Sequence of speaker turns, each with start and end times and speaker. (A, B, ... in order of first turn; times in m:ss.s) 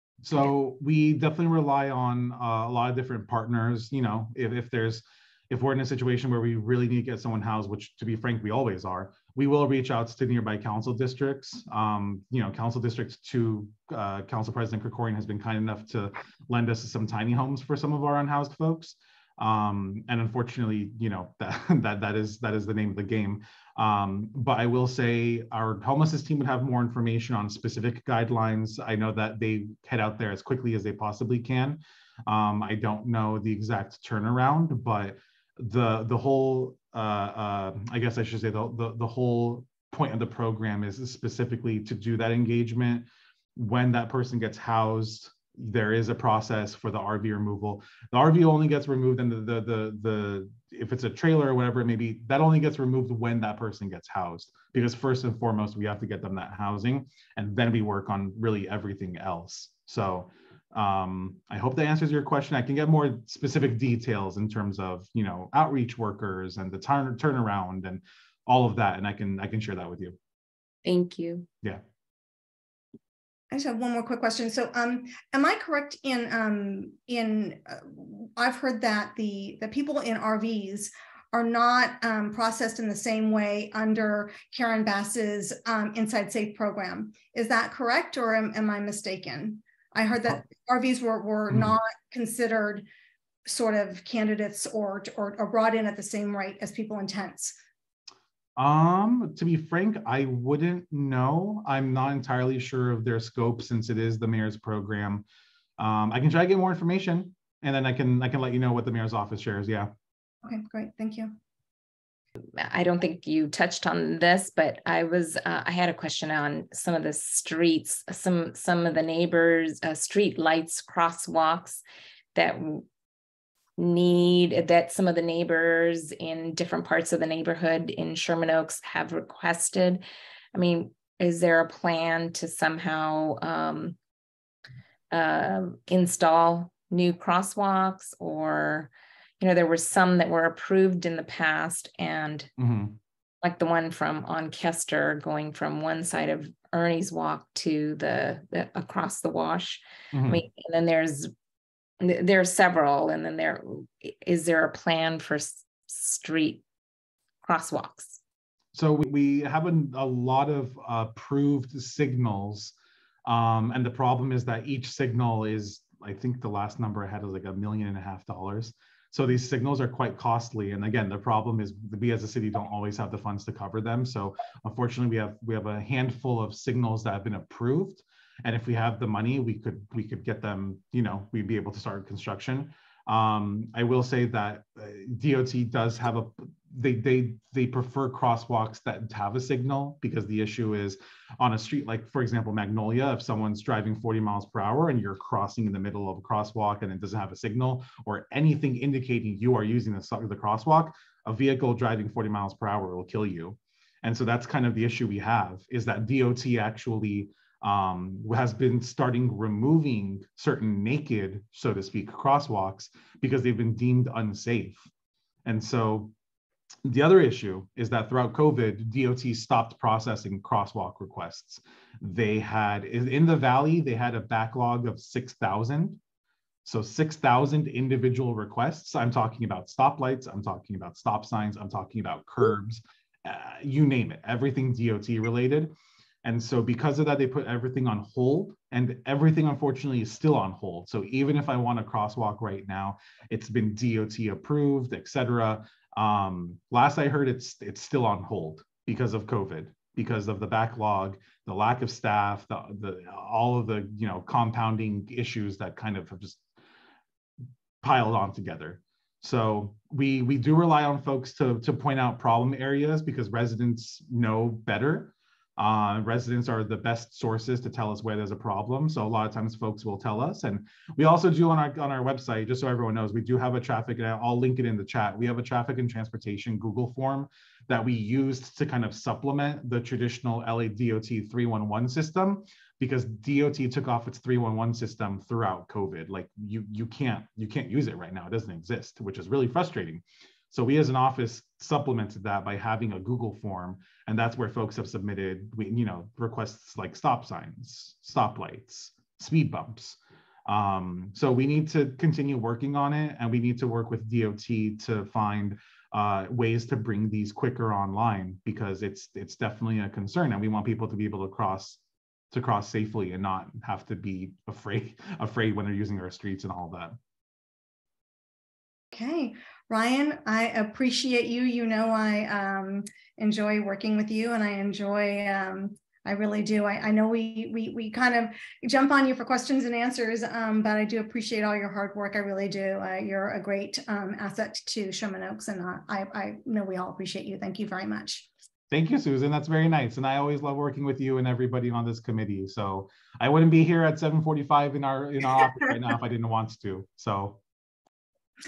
0:00.2-1:10.2 A
1:10.8-1:11.5 B
1:13.5-1:32.8 C
1:31.5-1:31.8 A
1:33.5-1:37.6 C
1:38.6-1:45.2 A
1:45.8-1:49.9 A
1:50.4-1:51.3 C
1:52.6-2:01.8 B
2:02.3-2:02.8 B
2:03.8-2:14.0 B
2:15.1-2:22.5 B
2:22.6-2:23.0 A
2:23.4-2:31.3 B
2:30.1-2:30.4 A
2:32.0-2:36.6 B
2:37.4-2:38.2 B
2:38.7-2:42.7 A
2:43.2-3:34.8 A
3:35.4-3:36.1 A
3:36.8-3:46.0 A
3:46.6-3:55.7 A
3:56.2-4:16.4 A
4:17.8-5:11.8 A
5:12.3-5:16.9 A
5:18.9-5:38.3 C
5:38.7-5:47.4 A